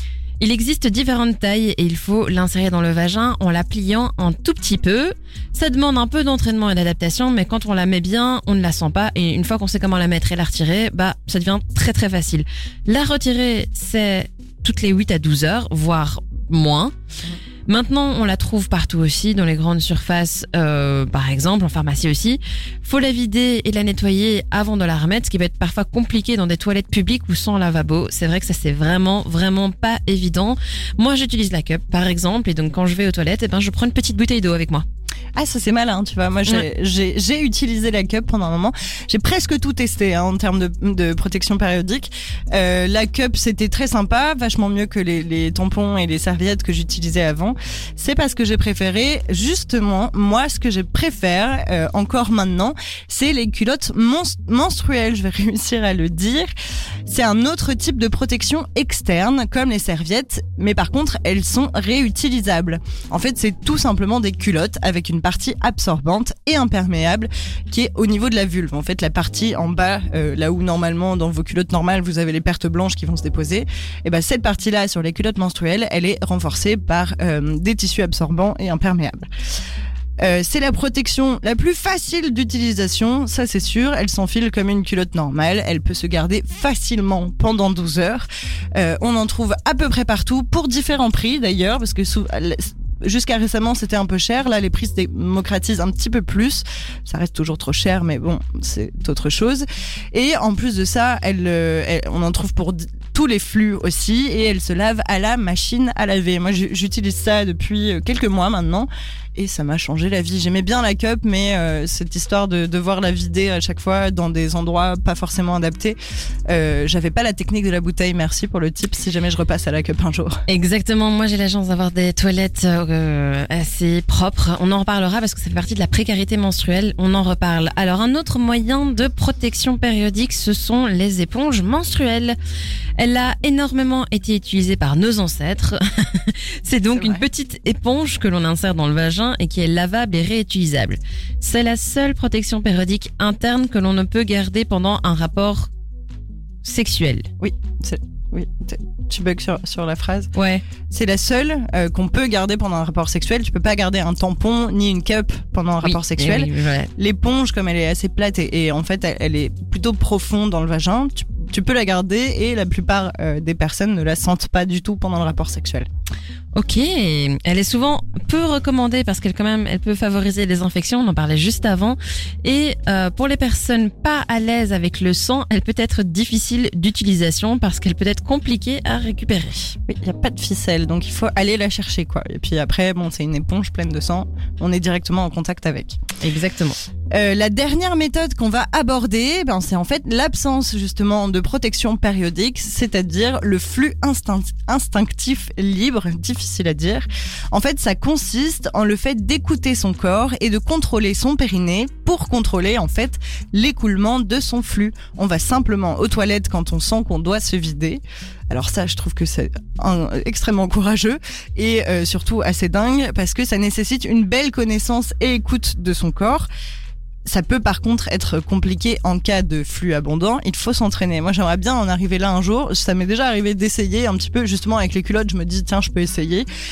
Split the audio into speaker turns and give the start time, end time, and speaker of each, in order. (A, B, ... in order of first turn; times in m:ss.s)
0:00.4-0:16.9 A
0:17.7-0:34.9 A
0:35.4-0:56.5 B
0:57.1-1:19.3 B
1:20.2-1:56.0 B
1:56.5-2:00.4 B
2:00.5-2:12.4 A
2:13.0-2:25.7 A
2:17.0-2:17.2 B
2:26.6-2:27.3 A
2:27.4-2:30.3 B
2:30.4-2:30.6 A
2:30.9-2:45.9 B
2:35.8-2:36.9 A
2:46.5-2:59.8 A
2:59.9-3:06.0 B
3:06.2-3:06.8 A
3:07.1-3:36.5 B
3:37.3-3:46.5 B